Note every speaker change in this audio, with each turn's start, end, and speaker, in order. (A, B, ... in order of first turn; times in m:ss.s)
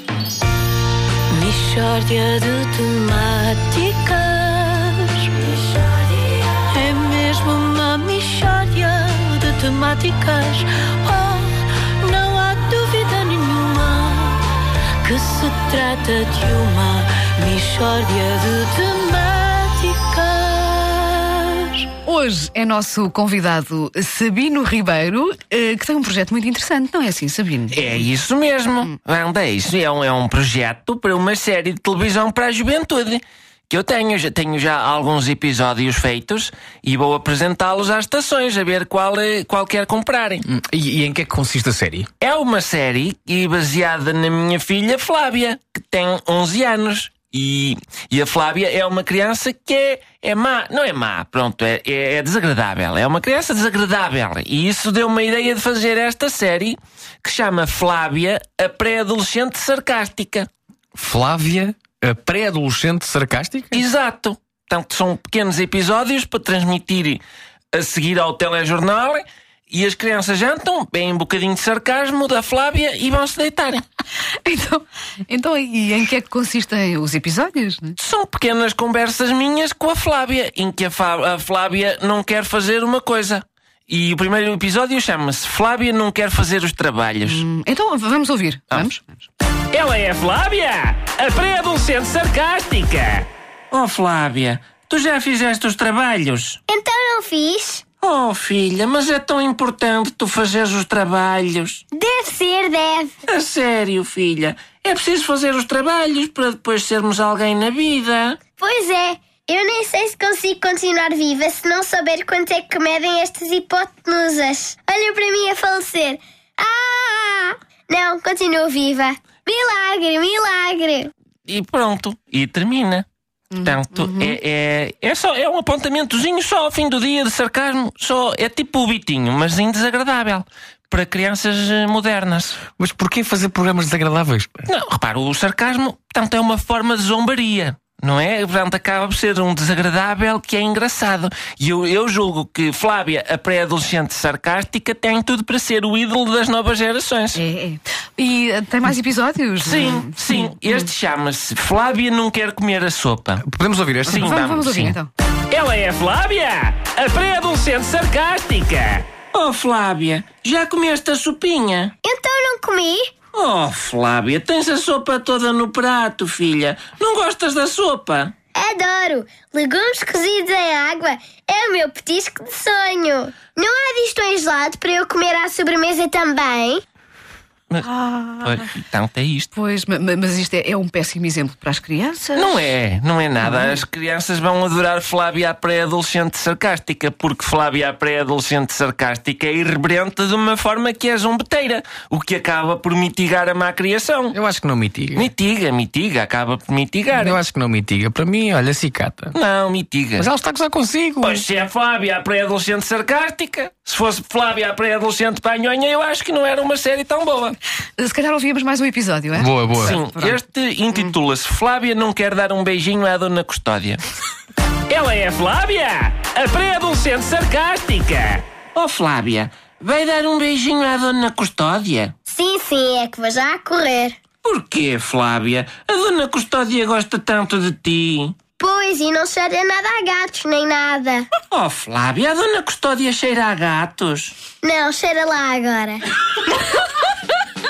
0:01.3-0:21.9 A
0:22.0-0:28.0 B
0:27.7-0:40.4 C
0:40.5-0:42.1 D
0:42.2-1:00.5 C
1:01.0-1:03.8 D
1:03.7-1:07.2 C
1:07.7-1:13.8 C
1:14.4-1:18.0 B
1:18.0-1:27.4 C
1:27.2-1:29.3 B
1:29.7-1:36.6 C
1:36.7-1:37.8 E
1:38.0-1:41.8 C
1:41.9-1:43.2 E
1:43.3-1:48.4 C
1:48.6-2:01.1 E
2:01.5-2:03.0 C
2:03.5-2:04.4 B
2:03.6-2:12.6 C
2:12.8-2:14.7 D
2:14.7-2:27.4 C
2:27.4-2:30.9 B
2:29.6-2:33.4 C
2:33.4-2:35.0 D
2:34.1-2:34.5 C
2:34.1-2:35.1 B
2:35.5-2:41.9 C
2:42.0-2:43.1 E
2:43.3-2:48.3 C
2:48.6-2:56.8 E
2:57.7-2:59.5 C
2:59.5-3:02.7 B
3:02.4-3:14.4 C
3:03.4-3:03.8 B
3:14.3-3:15.3 D
3:15.1-3:17.4 C
3:17.1-3:19.4 D
3:19.3-3:20.3 C
3:20.2-3:21.4 D
3:21.2-3:27.6 C
3:28.0-3:30.4 B
3:29.4-3:30.0 D
3:29.8-3:34.0 C
3:34.9-3:42.1 C
3:42.3-3:44.2 E
3:44.4-3:48.4 C
3:48.6-3:51.3 E
3:51.5-3:54.4 C
3:54.6-3:56.0 E